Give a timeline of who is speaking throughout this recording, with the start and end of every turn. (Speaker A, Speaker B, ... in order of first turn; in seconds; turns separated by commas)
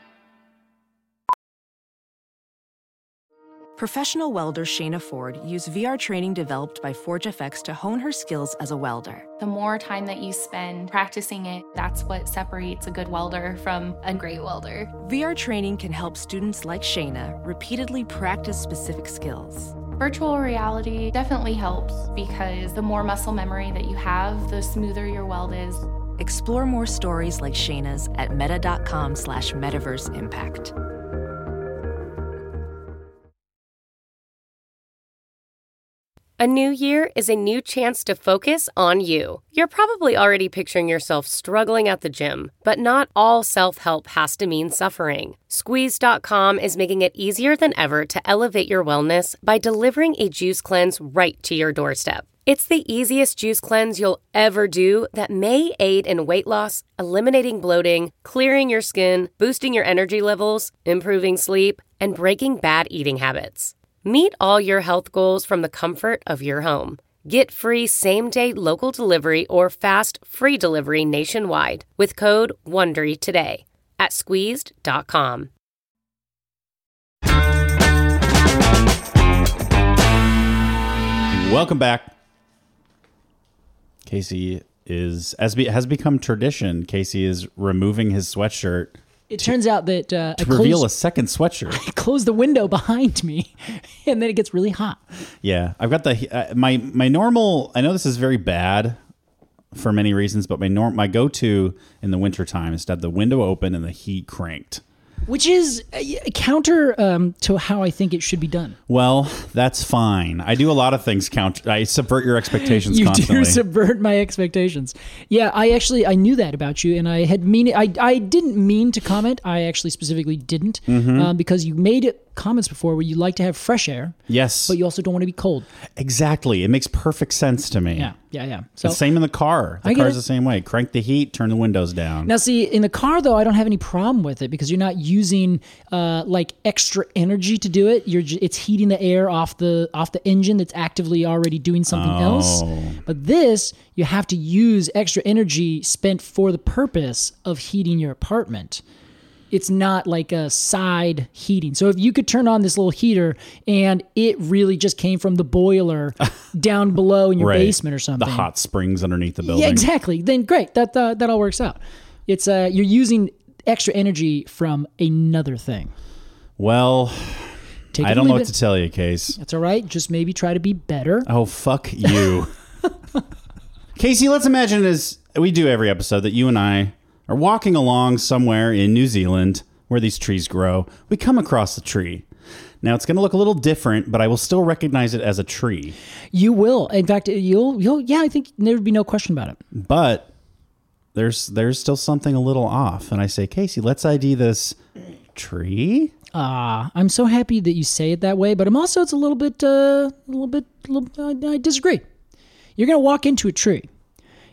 Speaker A: 3.8-9.3, Speaker B: 9.4-14.9, Speaker A: 15.0-19.8, Speaker B: 20.0-25.9, Speaker A: 26.2-30.7, Speaker C: 36.4-75.5, Speaker D: 81.3-82.1, Speaker D: 84.0-89.5, Speaker E: 89.3-90.9, Speaker D: 90.4-91.8, Speaker E: 91.7-95.0, Speaker D: 95.4-99.0, Speaker D: 99.7-104.8, Speaker E: 105.2-108.8, Speaker D: 108.9-113.6, Speaker E: 112.5-125.7, Speaker D: 120.9-121.3, Speaker D: 124.3-124.8, Speaker D: 126.0-128.1, Speaker E: 127.9-129.0, Speaker D: 128.8-132.3, Speaker E: 129.8-130.2, Speaker E: 132.2-148.8, Speaker D: 141.9-143.0, Speaker E: 149.5-158.5, Speaker D: 157.4-159.8, Speaker E: 159.4-165.9, Speaker D: 166.6-169.4, Speaker E: 167.9-168.5, Speaker E: 169.4-171.3, Speaker D: 171.2-172.5, Speaker D: 173.9-182.2, Speaker D: 182.8-185.9, Speaker E: 186.3-189.6, Speaker D: 189.7-190.3, Speaker D: 191.1-194.8, Speaker D: 195.3-196.1, Speaker E: 196.3-202.0, Speaker E: 202.8-203.9